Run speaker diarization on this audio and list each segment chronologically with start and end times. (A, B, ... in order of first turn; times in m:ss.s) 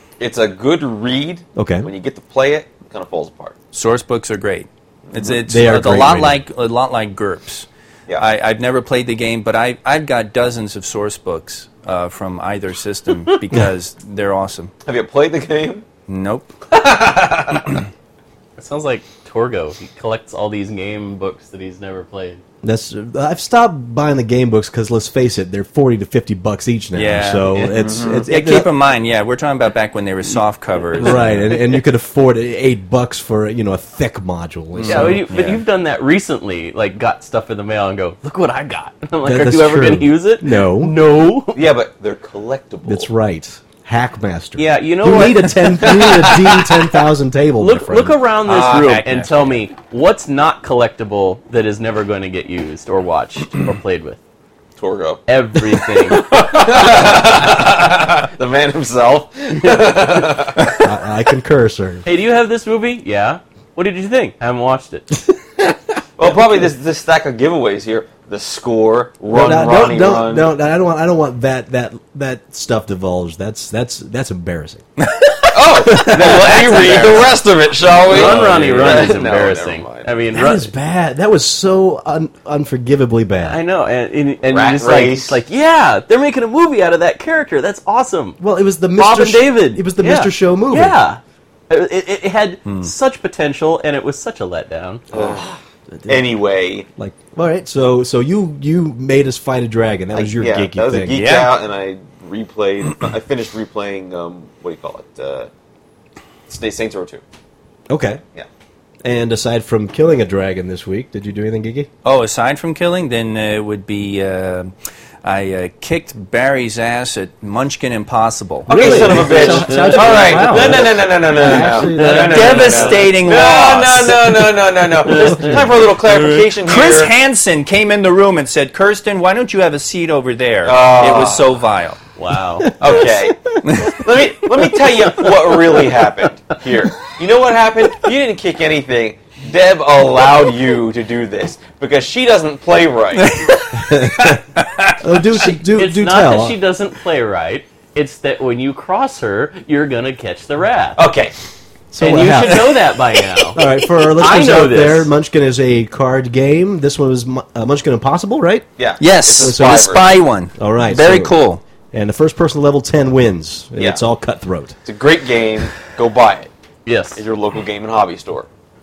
0:00.2-0:03.6 A
0:01.6-0:01.9 B
0:03.7-0:14.7 C
0:05.3-0:06.4 B
0:14.8-0:15.9 A
0:16.1-0:16.5 C
0:16.7-0:17.8 A
0:18.6-0:22.4 D
0:22.6-0:28.7 B
0:26.9-0:31.6 C
0:27.6-0:28.3 A
0:31.0-0:35.2 B
0:34.8-0:35.6 C
0:34.8-0:41.6 D
0:39.2-0:40.9 B
0:41.5-0:43.1 A
0:42.9-0:48.2 B
0:44.6-0:46.0 D
0:45.9-0:46.7 A
0:47.6-0:54.2 D
0:48.5-0:49.0 A
0:48.6-0:49.6 C
0:54.8-0:55.2 A
0:55.3-0:56.3 D
0:55.8-1:00.8 A
1:00.8-1:02.0 B
1:02.1-1:05.1 D
1:06.2-1:10.5 A
1:09.3-1:14.8 B
1:15.0-1:17.4 C
1:15.5-1:20.1 A
1:16.3-1:17.2 D
1:18.1-1:20.7 D
1:20.3-1:23.6 B
1:23.4-1:28.4 D
1:24.4-1:25.4 A
1:28.4-1:31.0 B
1:29.0-1:35.0 D
1:32.6-1:32.9 C
1:35.1-1:35.4 B
1:35.1-1:36.9 A
1:36.0-1:36.2 B
1:37.0-1:41.2 B
1:40.1-1:45.5 A
1:41.1-1:41.6 C
1:46.5-1:47.2 A
1:47.9-1:48.2 B
1:49.0-1:51.9 B
1:52.0-1:59.5 C
1:58.7-2:03.0 B
1:58.7-2:07.1 A
1:59.3-2:00.8 D
2:01.3-2:04.6 C
2:05.4-2:12.0 C
2:10.6-2:11.5 A
2:12.2-2:12.7 D
2:12.6-2:13.9 B
2:12.8-2:23.5 A
2:13.6-2:14.0 C
2:23.3-2:23.6 C
2:23.7-2:24.4 B
2:24.6-2:25.0 C
2:25.0-2:26.6 B
2:25.4-2:31.0 D
2:31.0-2:31.4 A
2:31.9-2:33.0 B
2:32.0-2:35.1 D
2:33.5-2:38.7 B
2:38.8-2:40.0 A
2:39.0-2:41.6 C
2:39.4-2:39.7 B
2:40.6-2:41.4 B
2:41.9-2:44.8 B
2:43.8-2:44.0 A
2:44.8-2:46.5 A
2:46.9-2:47.2 D
2:47.2-2:48.5 A